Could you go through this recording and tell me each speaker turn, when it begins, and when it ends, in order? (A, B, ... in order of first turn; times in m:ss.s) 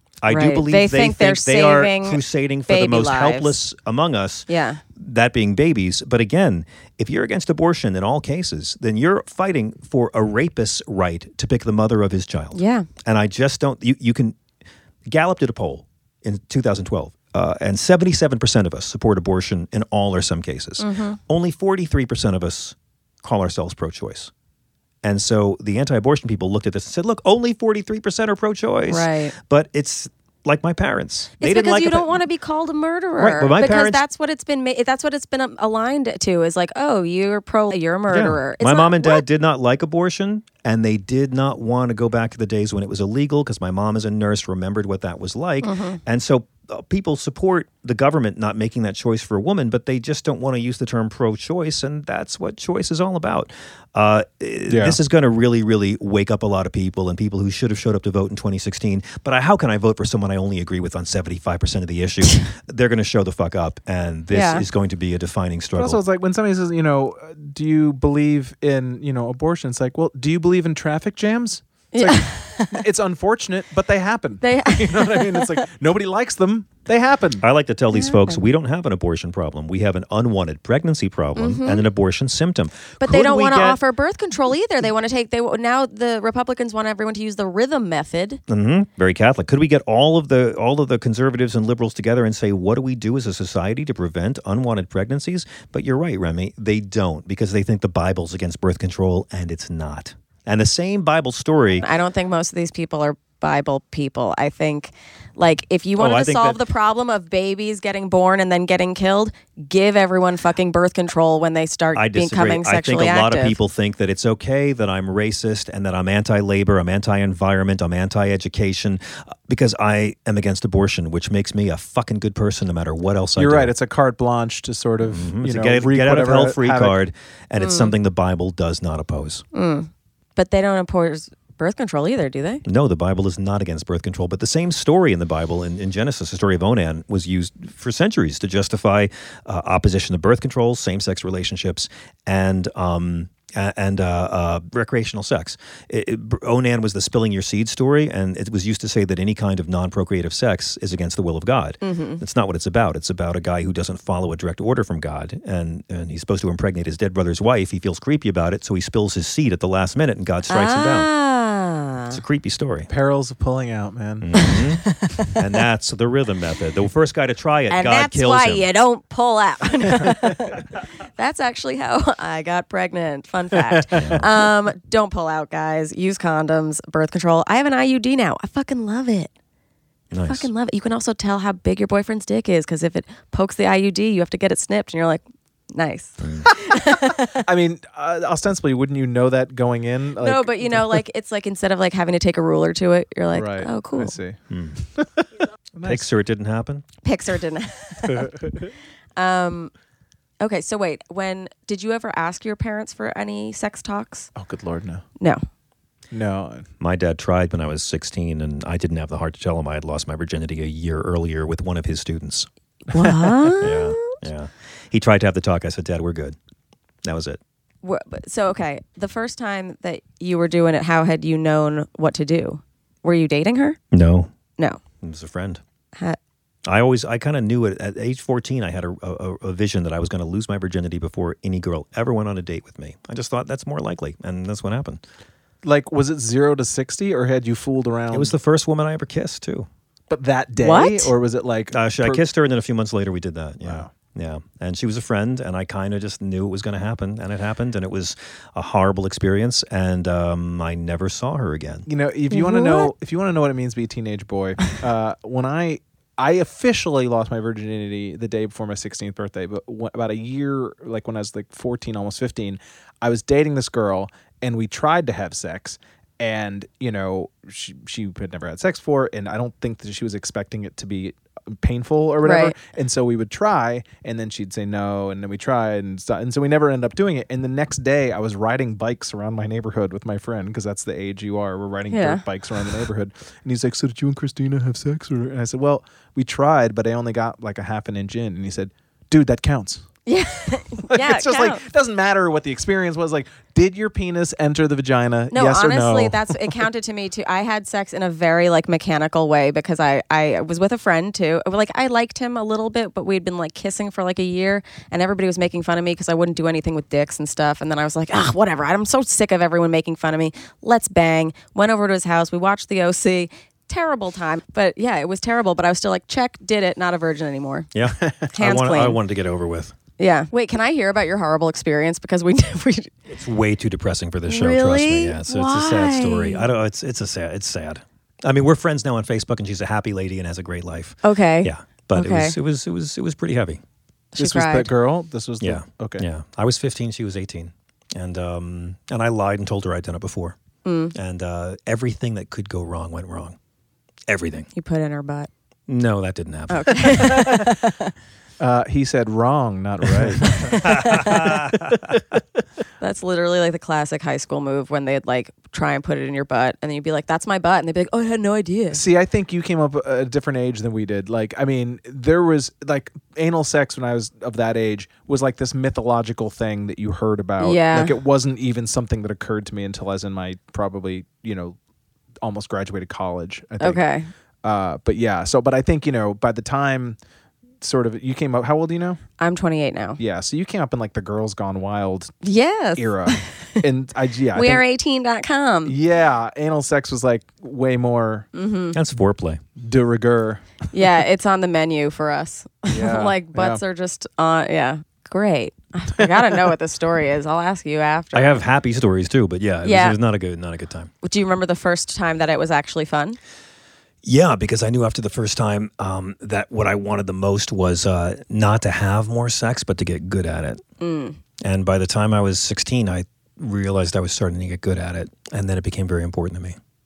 0:00.2-0:14.4 A
0:00.3-0:03.6 B
0:04.5-0:04.8 B
0:12.5-0:12.9 B
0:15.1-0:24.3 A
0:20.8-0:21.2 B
0:25.0-0:32.2 A
0:28.9-0:29.3 B
0:31.4-0:39.2 B
0:33.2-0:34.0 A
0:38.1-1:06.0 A
0:45.6-0:46.0 B
0:54.7-0:55.0 C
1:04.3-1:04.6 B
1:05.8-1:17.4 C
1:11.9-1:12.8 B
1:14.4-1:15.6 B
1:17.4-1:23.8 A
1:17.9-1:18.5 B
1:21.4-1:21.8 B
1:23.0-1:28.4 B
1:28.5-1:41.9 A
1:41.8-1:53.6 B
1:46.0-1:46.6 A
1:52.0-2:03.7 A
2:03.4-2:07.0 C
2:05.0-2:09.4 A
2:07.6-2:07.9 B
2:09.5-2:12.6 B
2:12.7-2:41.1 A
2:31.8-2:32.2 B
2:40.5-2:42.2 B
2:42.1-2:42.9 A
2:42.9-2:44.5 C
2:44.2-2:48.7 A
2:45.0-2:45.4 B
2:47.7-2:59.3 B
2:53.5-2:54.2 C
2:54.0-2:54.2 A
3:00.1-3:00.5 A
3:00.3-3:07.5 B
3:06.2-3:06.5 A
3:07.3-3:11.0 C
3:10.2-3:14.2 B
3:13.3-3:16.0 C
3:14.5-3:14.8 A
3:15.8-3:16.8 A
3:17.0-3:18.4 B
3:19.2-3:19.7 B
3:20.4-3:24.3 B
3:24.4-3:25.0 C
3:26.1-3:26.7 C
3:26.8-3:32.5 A
3:32.9-3:34.2 B
3:33.0-3:33.3 C
3:33.6-3:36.4 A
3:37.0-3:37.4 A
3:37.8-3:43.8 B
3:43.9-3:44.3 A
3:45.0-3:45.6 A
3:46.7-3:55.0 A
3:55.6-3:58.3 C
3:58.1-3:59.7 A
4:00.1-4:02.2 C
4:00.6-4:01.1 B
4:01.7-4:11.9 A
4:03.6-4:03.9 C
4:11.9-4:49.8 C
4:12.3-4:12.9 B
4:32.2-4:32.5 B
4:41.9-4:42.2 B
4:50.1-4:51.6 B
4:50.9-4:56.6 C
4:55.3-5:17.7 B
5:17.7-5:19.7 A
5:18.3-5:19.0 B
5:20.0-5:22.9 B
5:23.1-5:33.6 A
5:24.3-5:26.4 B
5:31.0-5:32.4 B
5:34.2-5:34.7 B
5:34.2-5:36.0 C
5:35.4-5:40.4 A
5:40.6-5:41.0 B
5:40.9-5:43.4 A
5:44.1-5:44.5 A
5:44.6-5:45.3 B
5:45.7-5:47.4 A
5:46.5-5:47.9 B
5:48.4-5:51.8 C
5:50.0-5:52.0 A
5:50.2-5:51.3 B
5:52.8-5:58.8 B
5:58.7-6:11.6 C
6:07.4-6:07.9 B
6:12.2-6:13.8 C
6:13.6-6:14.1 B
6:14.4-6:17.0 C
6:17.6-6:19.0 C
6:19.2-6:20.0 B
6:20.0-6:22.2 C
6:22.2-6:23.6 B
6:22.8-6:24.6 C
6:24.3-6:25.8 B
6:25.7-6:28.3 C
6:28.3-6:28.8 B
6:28.7-6:29.4 A
6:29.6-6:30.4 C
6:30.7-6:38.4 B
6:32.7-6:33.6 C
6:36.0-6:36.3 C
6:38.1-6:40.9 A
6:39.6-6:40.0 B
6:41.0-6:43.2 B
6:44.0-6:50.6 A
6:50.8-6:51.2 B
6:51.4-6:56.6 A